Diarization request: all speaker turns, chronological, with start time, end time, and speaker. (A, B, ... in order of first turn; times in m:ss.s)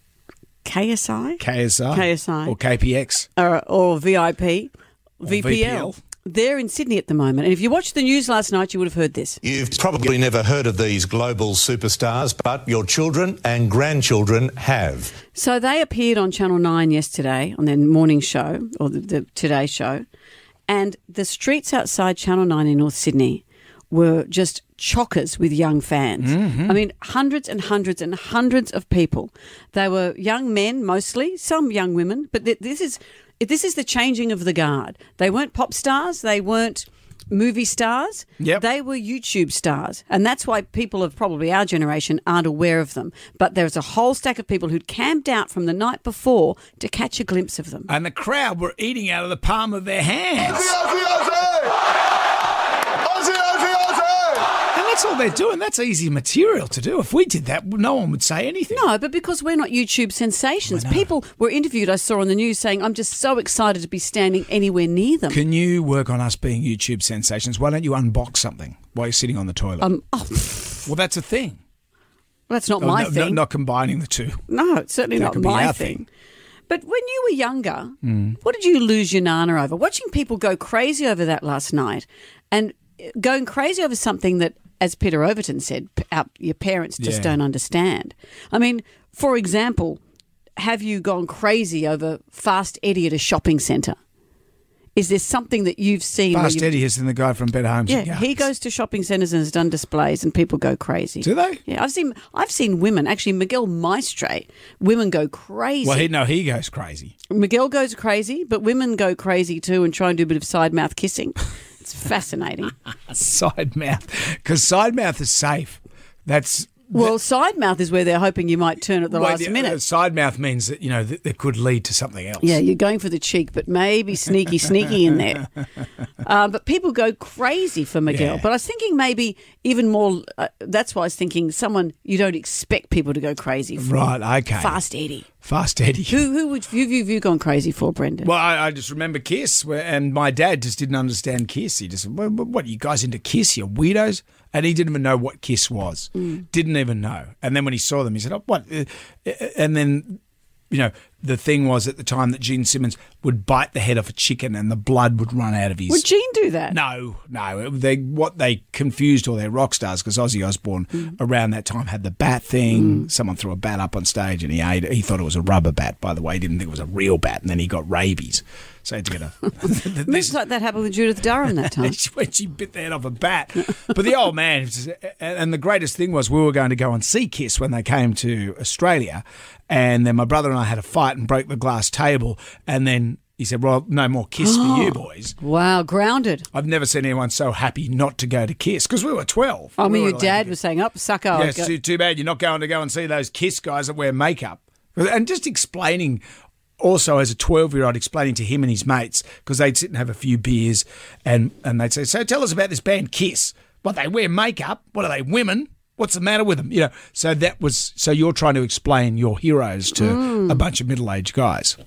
0:00.6-0:02.6 A
0:01.4-0:03.3 B
0:03.4-0:09.4 A
0:05.2-0:06.0 B
0:09.4-0:15.1 C
0:15.3-0:20.0 A
0:20.7-0:47.9 A
0:26.2-0:26.8 B
0:47.9-0:51.0 B
0:51.1-0:51.6 C
0:53.1-0:54.2 C
0:54.7-0:58.9 B
0:58.7-1:05.4 A
1:00.7-1:01.1 B
1:05.3-1:09.9 B
1:09.8-1:10.9 A
1:10.9-1:11.6 B
1:12.5-1:13.4 A
1:12.8-1:14.4 B
1:14.5-1:16.1 A
1:15.2-1:16.0 B
1:16.7-1:30.0 A
1:18.0-1:18.4 B
1:27.0-1:27.4 B
1:30.6-1:34.0 A
1:35.0-1:36.8 A
1:36.3-1:38.5 B
1:37.9-1:46.1 A
1:41.2-1:41.6 B
1:45.8-1:47.1 B
1:47.3-1:52.8 A
1:53.1-1:57.2 B
1:56.9-1:59.8 A
1:59.1-2:02.6 B
2:02.4-2:05.5 A
2:06.2-2:14.0 A
2:08.1-2:08.4 B
2:13.8-2:14.8 B
2:14.5-2:15.3 A
2:15.4-2:16.2 B
2:16.1-2:18.3 A
2:18.2-2:30.2 B
2:30.7-2:36.1 B
2:35.9-2:36.8 A
2:36.7-2:50.4 B
2:42.7-2:43.1 A
2:50.0-2:52.0 A
2:51.5-3:05.4 B
3:04.4-3:06.5 A
3:06.5-3:10.6 B
3:09.8-3:11.7 A
3:11.3-3:16.2 B
3:16.8-3:31.8 B
3:30.0-3:30.6 A